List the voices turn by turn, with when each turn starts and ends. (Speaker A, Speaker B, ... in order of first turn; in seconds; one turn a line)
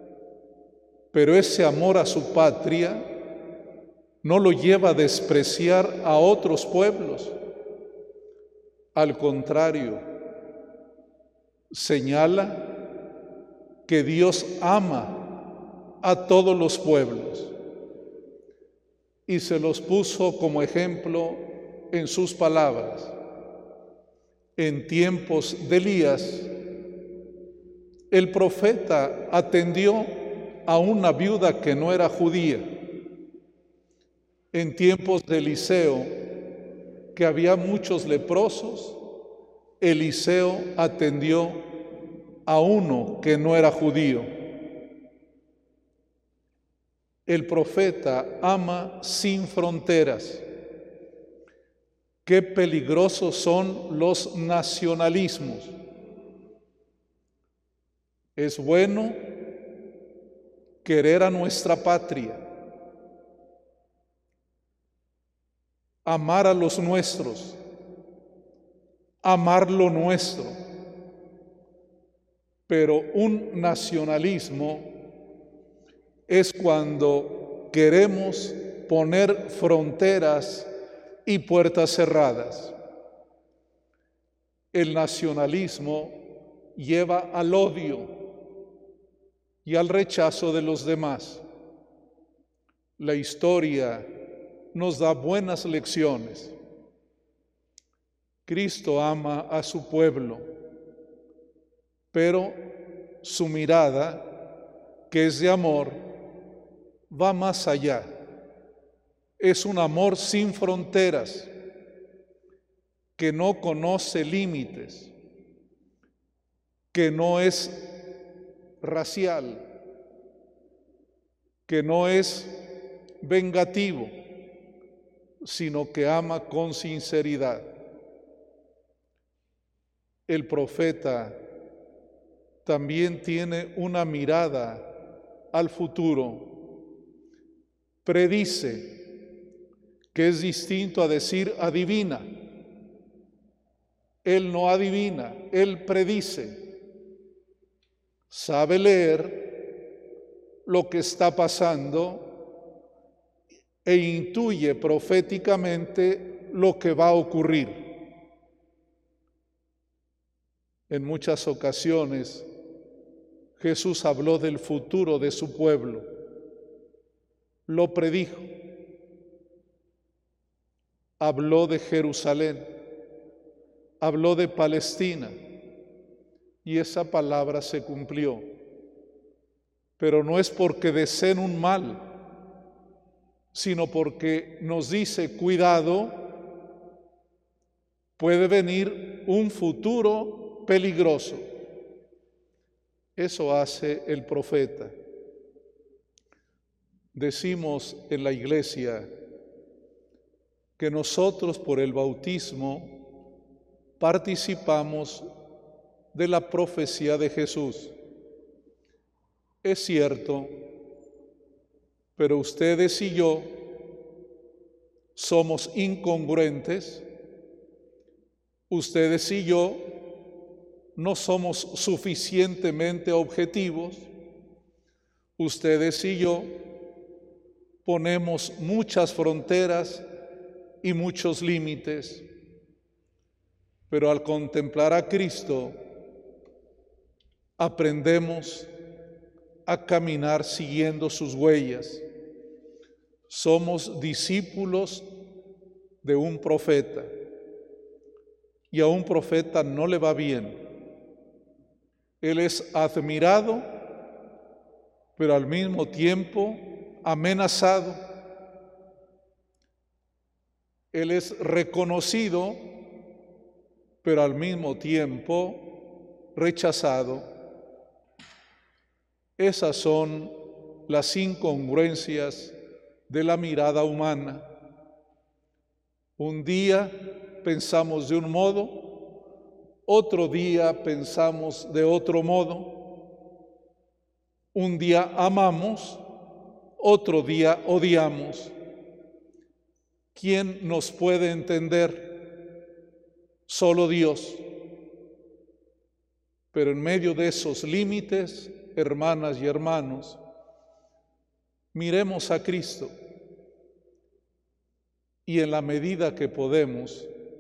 Speaker A: 1.1-3.1
Speaker A: 4.2-7.4
Speaker A: 8.9-10.0
Speaker A: 11.7-12.8
Speaker A: 13.8-15.4
Speaker A: 16.0-17.6
Speaker A: 19.3-23.1
Speaker A: 24.6-26.5
Speaker A: 28.1-32.8
Speaker A: 34.5-36.3
Speaker A: 37.1-39.0
Speaker A: 39.8-41.8
Speaker A: 42.4-44.3
Speaker A: 47.2-50.5
Speaker A: 52.2-55.7
Speaker A: 58.4-59.4
Speaker A: 60.8-62.4
Speaker A: 66.0-67.6
Speaker A: 69.2-70.6
Speaker A: 72.7-75.0
Speaker A: 76.3-80.7
Speaker A: 81.2-82.7
Speaker A: 84.7-88.3
Speaker A: 89.6-91.4
Speaker A: 93.0-94.1
Speaker A: 94.7-96.5
Speaker A: 98.5-100.5
Speaker A: 102.1-104.4
Speaker A: 105.1-106.1
Speaker A: 107.1-108.1
Speaker A: 109.4-111.5
Speaker A: 113.2-115.1
Speaker A: 116.9-118.0
Speaker A: 118.8-119.7
Speaker A: 121.7-122.6
Speaker A: 123.2-124.1
Speaker A: 125.4-127.7
Speaker A: 130.3-131.4
Speaker A: 132.6-134.9
Speaker A: 135.5-136.7
Speaker A: 138.0-139.1
Speaker A: 140.1-142.4
Speaker A: 144.2-146.7
Speaker A: 148.3-149.6
Speaker A: 150.6-152.4
Speaker A: 153.8-158.0
Speaker A: 160.9-162.5
Speaker A: 163.6-166.1
Speaker A: 167.7-168.5
Speaker A: 171.2-172.8
Speaker A: 174.0-175.3
Speaker A: 176.6-178.5
Speaker A: 180.0-182.1
Speaker A: 183.5-186.3
Speaker A: 188.2-191.5
Speaker A: 193.2-194.9
Speaker A: 197.1-199.1
Speaker A: 200.8-203.0
Speaker A: 204.0-205.3
Speaker A: 206.1-207.9
Speaker A: 209.6-210.7
Speaker A: 212.2-213.7
Speaker A: 215.1-217.1
Speaker A: 218.7-220.1
Speaker A: 220.9-224.1
Speaker A: 225.4-226.6
Speaker A: 227.8-230.0
Speaker A: 230.8-232.2
Speaker A: 233.9-235.8
Speaker A: 237.6-238.7
Speaker A: 239.7-242.0
Speaker A: 243.3-245.1
Speaker A: 246.0-247.1
Speaker A: 248.7-250.7
Speaker A: 252.2-253.7
Speaker A: 255.2-258.1
Speaker A: 260.9-262.8
Speaker A: 264.0-267.3
Speaker A: 269.4-272.6
Speaker A: 273.1-274.5
Speaker A: 276.2-279.1
Speaker A: 279.9-283.0
Speaker A: 284.5-286.0
Speaker A: 286.8-288.5
Speaker A: 290.1-292.4
Speaker A: 293.5-294.4
Speaker A: 296.5-300.2
Speaker A: 301.7-302.9
Speaker A: 305.2-307.1